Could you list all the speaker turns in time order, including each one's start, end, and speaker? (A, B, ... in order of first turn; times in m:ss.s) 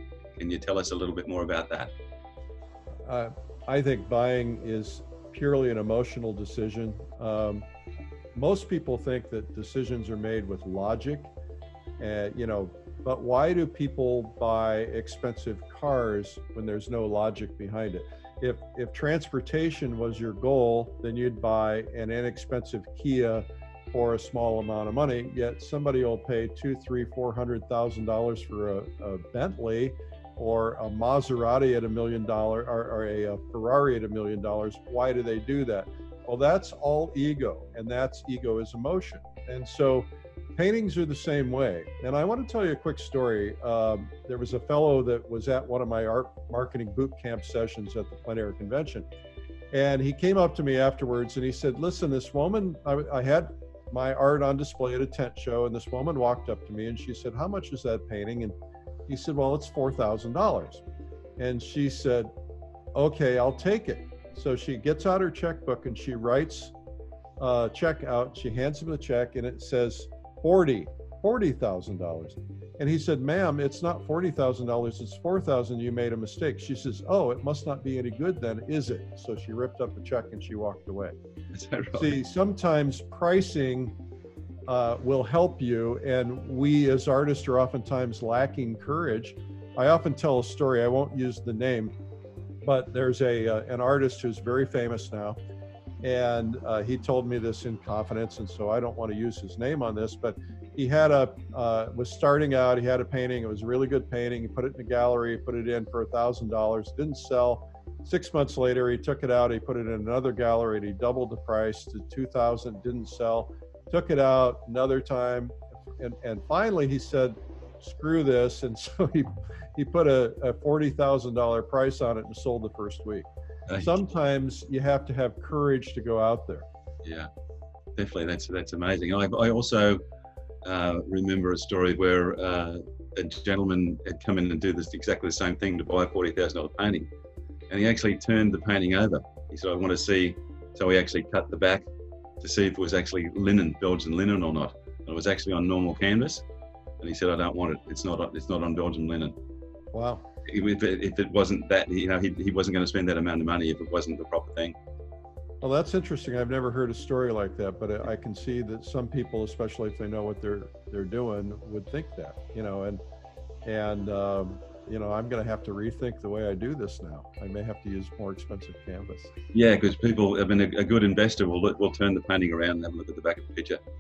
0:00.4-0:01.9 A
0:03.0-0:07.6 B
0:08.3-0:11.3 B
0:12.0-0:49.1 B
0:49.7-0:58.5 B
0:59.1-1:00.8 B
1:01.4-1:02.3 B
1:02.9-1:06.7 B
1:07.4-1:21.1 B
1:21.5-1:22.1 A
1:21.9-1:23.9 B
1:24.7-1:32.0 B
1:32.6-1:35.4 B
1:36.0-2:06.6 B
2:07.0-2:07.3 A
2:08.0-2:10.0 A
2:10.6-2:17.1 A
2:17.7-2:21.8 A
2:22.4-2:26.4 A
2:27.0-2:29.3 A
2:29.9-2:30.2 B
2:30.5-2:34.8 A
2:35.6-2:43.0 B
2:43.6-2:49.3 B
2:49.5-2:53.8 A